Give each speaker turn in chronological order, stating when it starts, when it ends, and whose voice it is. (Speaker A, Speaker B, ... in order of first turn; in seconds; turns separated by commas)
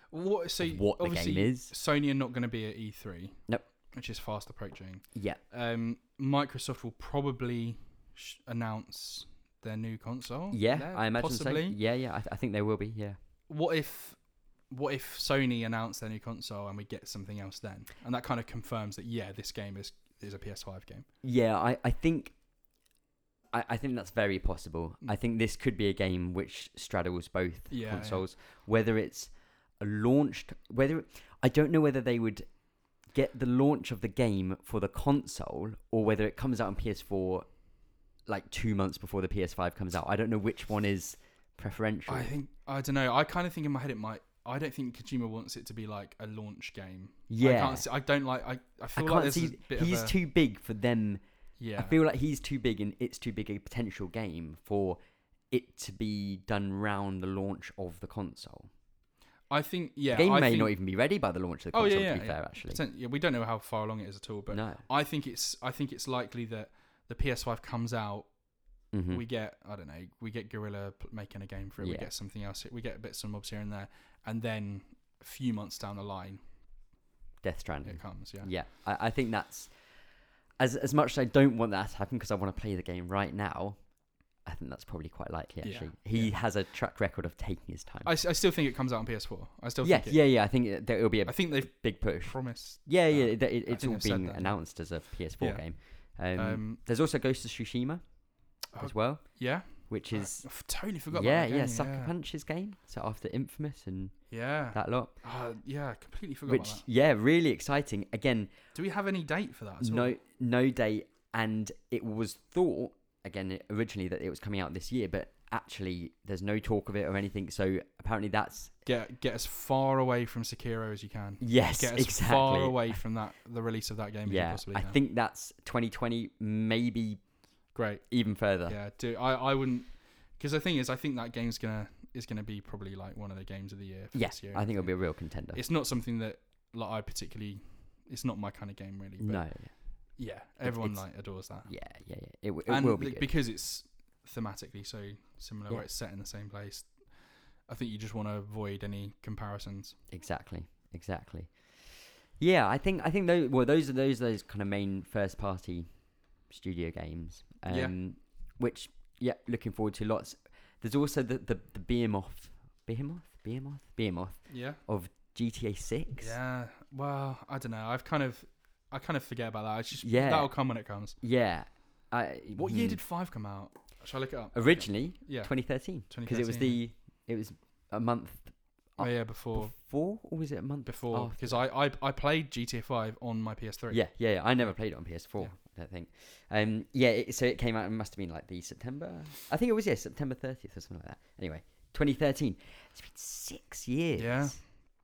Speaker A: 0.1-11.8, Speaker B: 0.6-1.7, Speaker B: 5.2-5.4, Speaker B: 10.5-13.2, Speaker A: 13.5-21.1, Speaker B: 21.2-22.3, Speaker B: 23.5-32.5, Speaker A: 27.7-28.2, Speaker B: 33.1-37.5, Speaker B: 38.3-42.3, Speaker A: 42.1-50.1, Speaker B: 47.3-47.9, Speaker B: 49.0-51.2, Speaker A: 51.6-52.0, Speaker B: 51.8-55.0, Speaker B: 55.5-58.7, Speaker A: 59.5-60.7, Speaker B: 60.1-62.8, Speaker A: 61.7-68.3, Speaker B: 64.5-64.8, Speaker B: 68.9-69.2, Speaker A: 69.1-76.4, Speaker B: 71.8-72.1, Speaker B: 77.4-79.7, Speaker A: 77.8-78.5, Speaker B: 80.6-83.8, Speaker B: 84.5-88.1, Speaker A: 85.6-86.4, Speaker A: 88.0-90.2, Speaker B: 89.8-98.0, Speaker A: 91.2-94.7, Speaker A: 95.4-96.8, Speaker B: 98.7-100.5, Speaker A: 98.7-102.1, Speaker B: 101.1-104.2, Speaker A: 104.3-106.8, Speaker B: 104.7-105.1, Speaker B: 106.5-108.5, Speaker A: 108.7-110.2, Speaker B: 109.8-118.7, Speaker A: 118.8-125.0, Speaker B: 121.4-123.0, Speaker B: 124.3-127.2, Speaker A: 127.7-139.5, Speaker B: 128.1-128.8, Speaker B: 134.1-135.6, Speaker B: 139.2-139.7, Speaker A: 140.2-141.7, Speaker B: 140.6-141.1, Speaker B: 141.7-143.3, Speaker A: 142.7-150.0, Speaker B: 150.1-155.9, Speaker B: 156.5-166.4, Speaker A: 157.7-157.9, Speaker A: 164.5-164.8, Speaker A: 166.2-171.2, Speaker B: 170.0-170.6, Speaker B: 171.2-173.0, Speaker A: 172.6-176.8, Speaker B: 174.5-181.6, Speaker A: 179.0-179.7, Speaker A: 180.9-184.0, Speaker B: 183.9-194.6, Speaker A: 194.2-194.6